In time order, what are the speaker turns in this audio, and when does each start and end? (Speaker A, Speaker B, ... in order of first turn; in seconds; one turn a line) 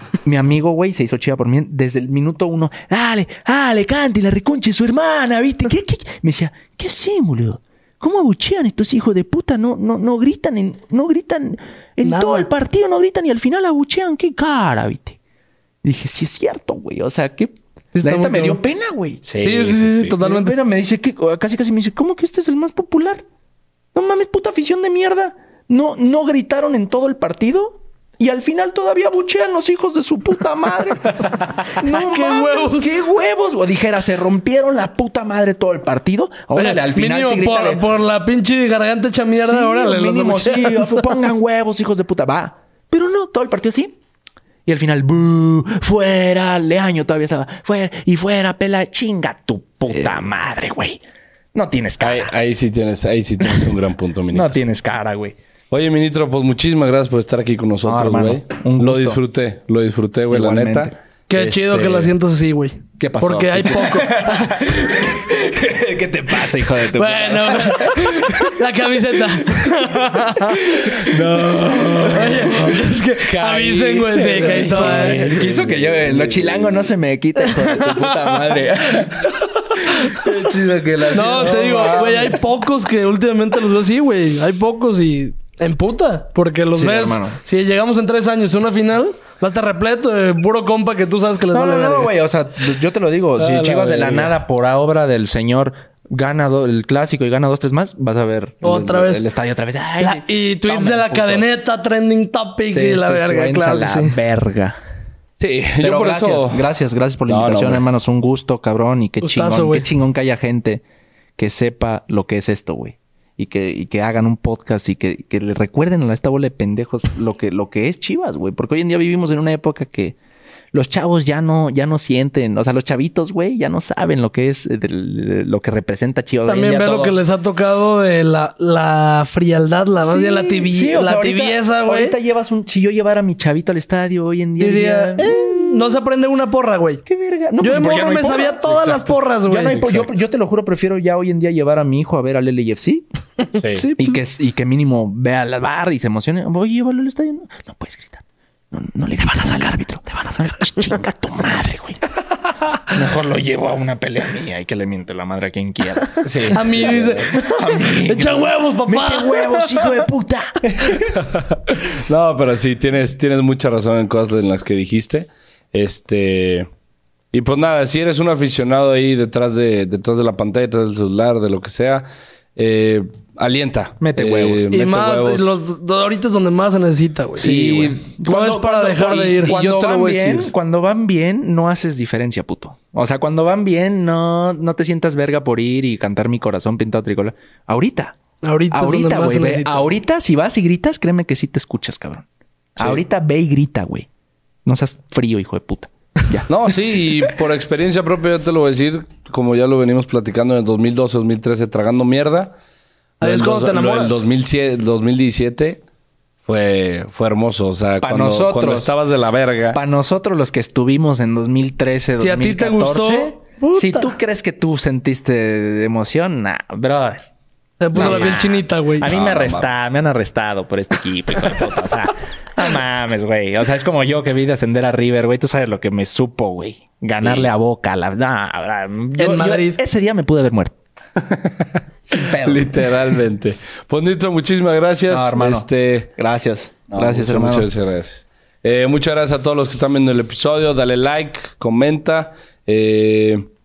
Speaker A: 0.2-15.2
Speaker B: 12.0-12.5
Speaker A: 15.8-19.2
Speaker B: 17.9-18.6
Speaker C: 19.2-20.2
Speaker B: 19.4-20.6
Speaker A: 20.2-23.2
Speaker A: 23.9-37.9
Speaker B: 31.7-32.9
Speaker B: 36.5-41.1
Speaker A: 39.3-44.0
Speaker A: 44.6-51.0
Speaker A: 51.5-52.3
Speaker C: 52.0-54.6
Speaker A: 53.4-53.7
Speaker A: 54.3-55.4
Speaker C: 55.7-62.1
Speaker A: 57.8-59.2
Speaker A: 60.3-60.9
Speaker B: 61.3-64.9
Speaker A: 63.0-68.7
Speaker B: 66.9-71.0
Speaker A: 69.2-82.5
Speaker C: 71.1-72.5
Speaker B: 72.1-75.3
Speaker C: 74.3-76.9
Speaker B: 77.4-78.5
Speaker B: 79.9-80.2
Speaker C: 80.2-82.0
Speaker B: 81.1-92.1
Speaker A: 86.7-87.4
Speaker A: 91.5-101.5
Speaker B: 93.4-94.3
Speaker B: 98.6-99.2
Speaker B: 100.0-104.2
Speaker A: 102.7-104.8
Speaker C: 105.4-106.7
Speaker A: 105.8-110.8
Speaker C: 107.3-107.8
Speaker B: 109.2-109.9
Speaker A: 111.4-120.2
Speaker A: 120.7-127.2
Speaker B: 126.5-132.2
Speaker A: 130.0-136.0
Speaker B: 134.6-137.0
Speaker A: 137.1-143.0
Speaker B: 137.6-140.0
Speaker C: 143.6-143.9
Speaker B: 143.7-144.2
Speaker A: 144.0-152.0
Speaker A: 152.9-161.2
Speaker C: 156.2-157.3
Speaker B: 156.5-160.1
Speaker C: 161.1-166.7
Speaker C: 167.3-175.6
Speaker A: 174.0-174.7
Speaker B: 174.7-179.5
Speaker A: 177.3-188.2
Speaker C: 177.4-177.9
Speaker C: 179.3-180.5
Speaker B: 188.4-189.9
Speaker A: 188.7-192.2
Speaker A: 192.8-194.1
Speaker A: 194.6-196.5
Speaker C: 196.5-202.5
Speaker B: 203.2-204.2
Speaker C: 203.2-205.8
Speaker C: 206.4-209.8
Speaker A: 208.0-208.9
Speaker A: 209.7-217.3
Speaker B: 212.2-214.1
Speaker B: 217.8-219.1
Speaker C: 217.9-219.7
Speaker A: 217.9-230.8
Speaker C: 227.2-227.5
Speaker B: 229.2-229.8
Speaker C: 231.2-236.1
Speaker A: 232.1-233.2
Speaker A: 235.1-237.7
Speaker C: 236.9-243.5